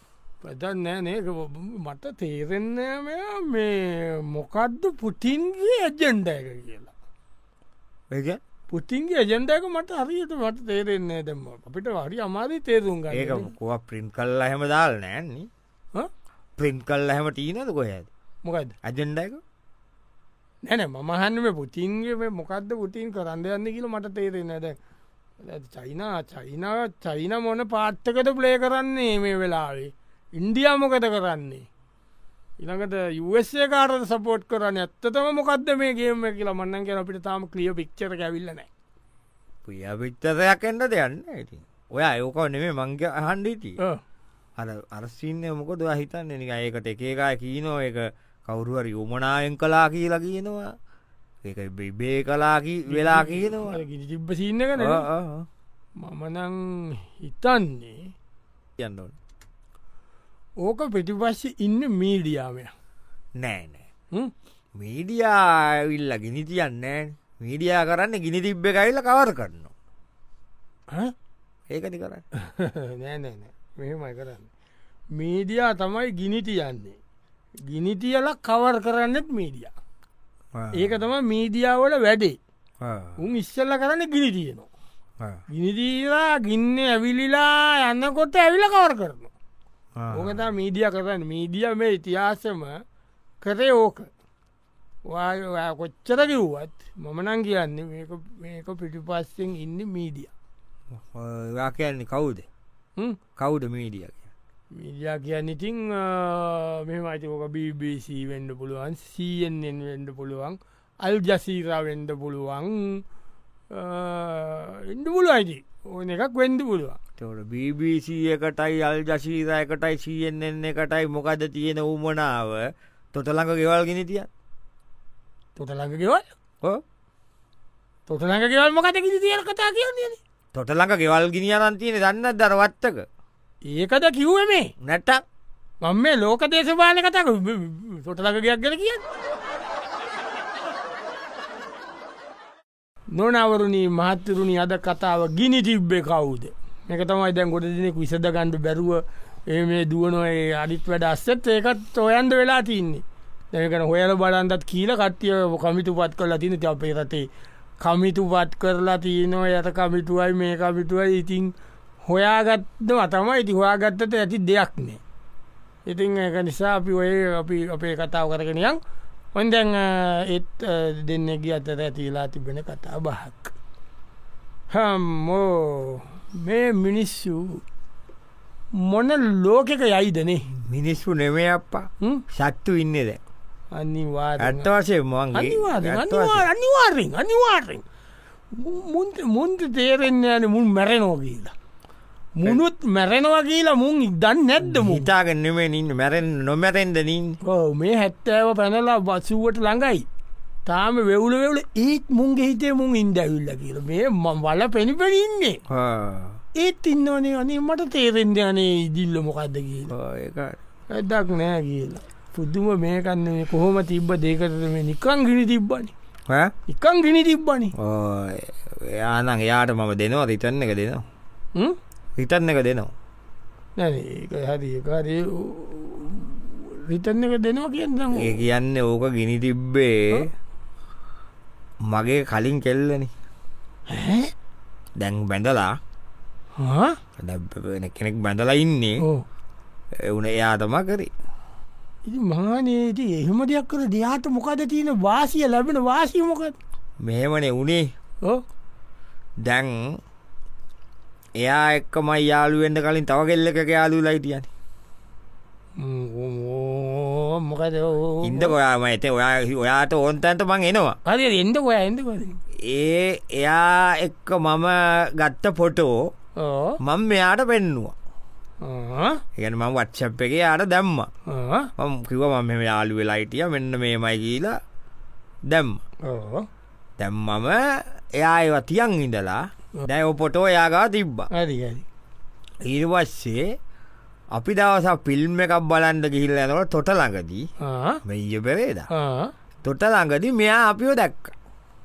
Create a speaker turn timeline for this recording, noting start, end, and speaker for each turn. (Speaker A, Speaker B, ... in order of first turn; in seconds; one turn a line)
Speaker A: 0.4-6.9
Speaker B: 8.1-8.4
Speaker A: 8.7-13.5
Speaker B: 13.1-15.5
Speaker B: 16.6-18.1
Speaker A: 18.4-18.8
Speaker B: 18.8-19.4
Speaker A: 20.6-24.8
Speaker A: 25.4-31.6
Speaker A: 32.6-38.7
Speaker B: 39.6-43.8
Speaker B: 44.6-50.7
Speaker B: 51.4-53.8
Speaker A: 52.9-55.0
Speaker B: 54.8-55.5
Speaker A: 56.0-58.1
Speaker B: 58.8-59.1
Speaker A: 60.6-62.7
Speaker B: 63.4-63.9
Speaker B: 64.8-69.7
Speaker B: 71.7-72.2
Speaker A: 72.3-74.5
Speaker A: 75.2-77.0
Speaker A: 77.7-79.7
Speaker B: 80.5-81.0
Speaker A: 80.7-82.4
Speaker B: 82.8-83.2
Speaker A: 83.2-84.7
Speaker A: 85.5-89.3
Speaker B: 90.0-90.5
Speaker A: 90.1-92.8
Speaker A: 93.4-94.1
Speaker A: 95.0-100.3
Speaker B: 100.9-102.5
Speaker B: 103.4-104.2
Speaker A: 104.7-113.0
Speaker A: 113.7-117.0
Speaker B: 117.2-124.3
Speaker A: 125.5-126.2
Speaker A: 128.1-130.2
Speaker B: 130.5-133.0
Speaker A: 133.7-134.7
Speaker B: 134.8-135.2
Speaker A: 135.8-139.0
Speaker A: 143.1-157.3
Speaker A: 157.8-161.5
Speaker A: 162.0-165.0
Speaker A: 165.8-168.8
Speaker A: 169.3-173.5
Speaker A: 174.7-177.6
Speaker A: 178.7-180.5
Speaker B: 180.5-183.2
Speaker A: 183.7-184.7
Speaker B: 184.4-186.5
Speaker A: 185.3-187.8
Speaker A: 188.5-191.5
Speaker A: 192.4-195.1
Speaker B: 194.6-197.4
Speaker A: 197.4-200.1
Speaker A: 200.7-205.6
Speaker B: 205.7-206.4
Speaker A: 206.5-209.9
Speaker B: 209.9-210.6
Speaker A: 210.9-215.9
Speaker A: 216.7-217.7
Speaker B: 217.8-221.0
Speaker B: 222.2-222.9
Speaker A: 223.8-228.4
Speaker B: 228.1-230.3
Speaker B: 231.9-233.1
Speaker A: 233.9-234.3
Speaker B: 235.0-235.8
Speaker A: 236.6-237.0
Speaker B: 237.2-239.0
Speaker B: 239.9-241.1
Speaker A: 242.1-246.6
Speaker B: 247.0-247.9
Speaker B: 249.4-250.0
Speaker B: 251.4-254.5
Speaker A: 255.8-258.5
Speaker B: 258.2-261.0
Speaker A: 261.1-262.4
Speaker B: 262.7-266.0
Speaker A: 266.4-266.8
Speaker B: 266.8-267.9
Speaker A: 268.6-269.2
Speaker B: 269.4-271.1
Speaker A: 271.3-271.7
Speaker B: 271.8-274.6
Speaker B: 275.5-275.8
Speaker A: 276.0-276.4
Speaker B: 277.0-281.3
Speaker A: 281.3-281.8
Speaker B: 282.6-283.5
Speaker B: 284.3-287.4
Speaker A: 287.6-288.0
Speaker B: 288.0-288.9
Speaker A: 288.9-289.3
Speaker B: 289.6-291.3